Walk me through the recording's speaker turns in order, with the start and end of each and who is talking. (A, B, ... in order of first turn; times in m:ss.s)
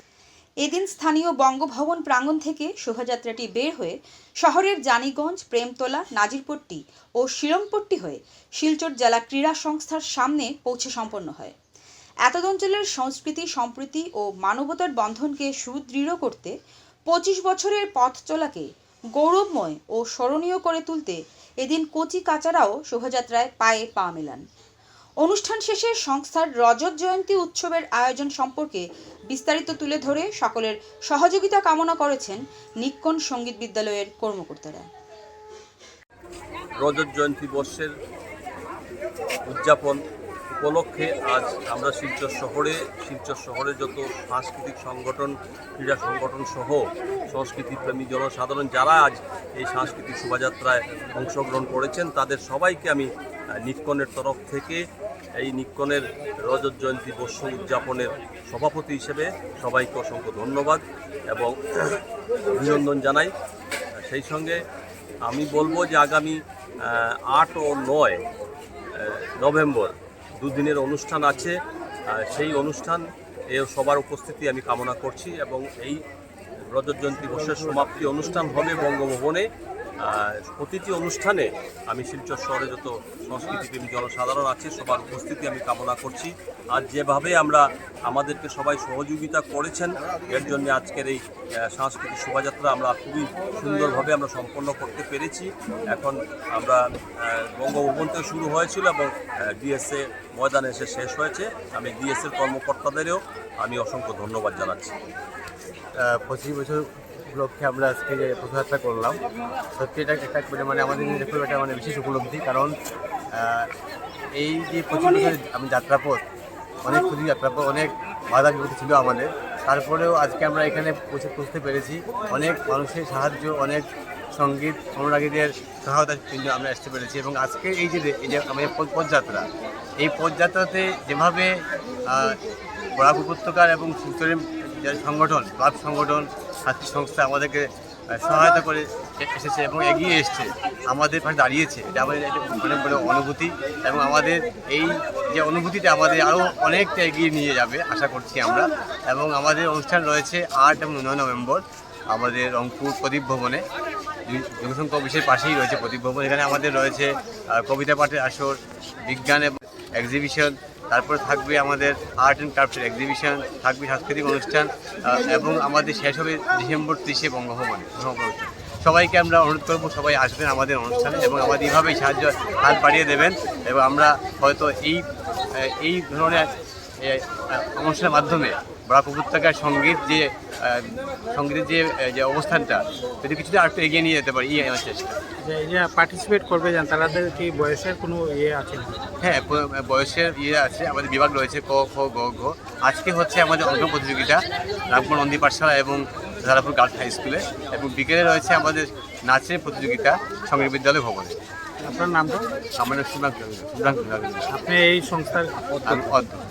0:00.6-0:11.5 A
0:12.3-0:16.5 A
0:17.1-0:24.4 A
0:25.2-0:34.9 A
0:36.8-0:37.9 B
0:39.5-0:40.0 B
0:40.5-0:54.8 B
0:55.4-1:03.3 B
1:04.0-1:04.6 B
1:05.2-1:08.2 B
1:08.9-1:11.6 B
1:12.1-1:16.0 B
1:16.7-1:19.5 B
1:20.0-1:45.0 B
1:46.0-1:49.2 C
1:49.7-1:52.7 C
1:53.3-1:53.7 C
1:54.3-1:56.2 C
1:56.8-2:03.8 C
2:04.3-2:09.5 C
2:10.0-2:12.4 C
2:13.0-2:33.6 C
2:34.3-2:56.5 C
2:57.0-3:05.2 C
3:05.4-3:09.0 D
3:09.2-3:21.4 C
3:21.8-3:22.5 D
3:22.8-3:24.5 C
3:24.5-3:26.1 D
3:25.8-3:26.4 C